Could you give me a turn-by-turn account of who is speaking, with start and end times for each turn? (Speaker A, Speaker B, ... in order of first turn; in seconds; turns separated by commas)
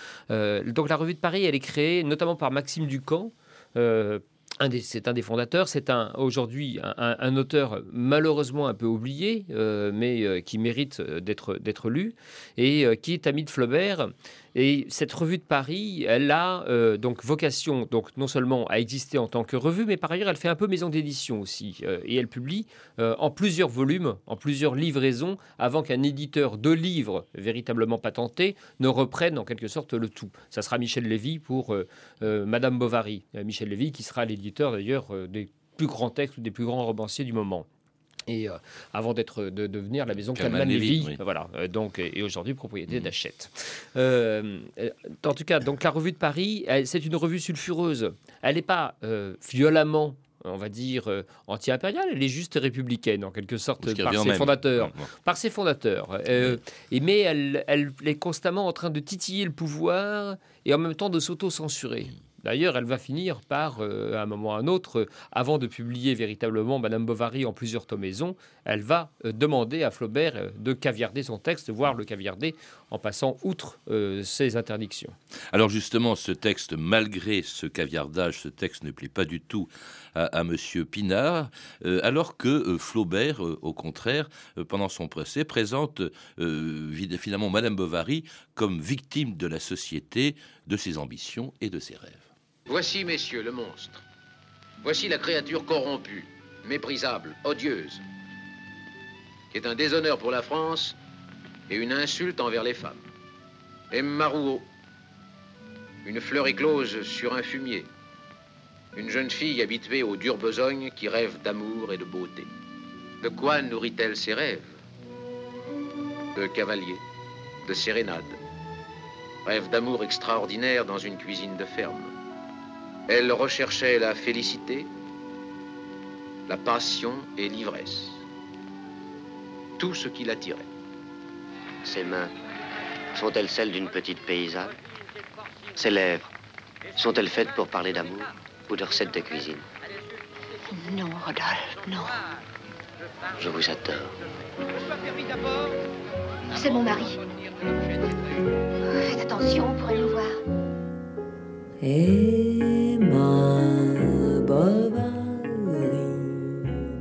Speaker A: 0.3-37.7, Speaker A: 38.3-75.2, Speaker B: 40.4-41.2, Speaker B: 53.8-55.1, Speaker B: 75.5-92.3, Speaker C: 92.7-94.0, Speaker C: 94.8-98.0, Speaker C: 99.5-101.0, Speaker C: 101.7-103.0, Speaker C: 103.9-104.7, Speaker C: 106.0-107.9, Speaker C: 109.0-112.5, Speaker C: 113.2-114.7, Speaker C: 116.3-117.0, Speaker C: 117.7-118.4, Speaker C: 119.4-122.1, Speaker C: 123.1-124.9, Speaker C: 126.5-128.2, Speaker C: 129.8-130.7, Speaker D: 131.8-132.3, Speaker D: 133.2-134.8, Speaker D: 135.8-136.3, Speaker D: 137.0-139.6, Speaker E: 140.7-142.2, Speaker D: 143.4-144.1, Speaker E: 146.5-147.2, Speaker E: 148.8-150.4, Speaker F: 151.8-156.8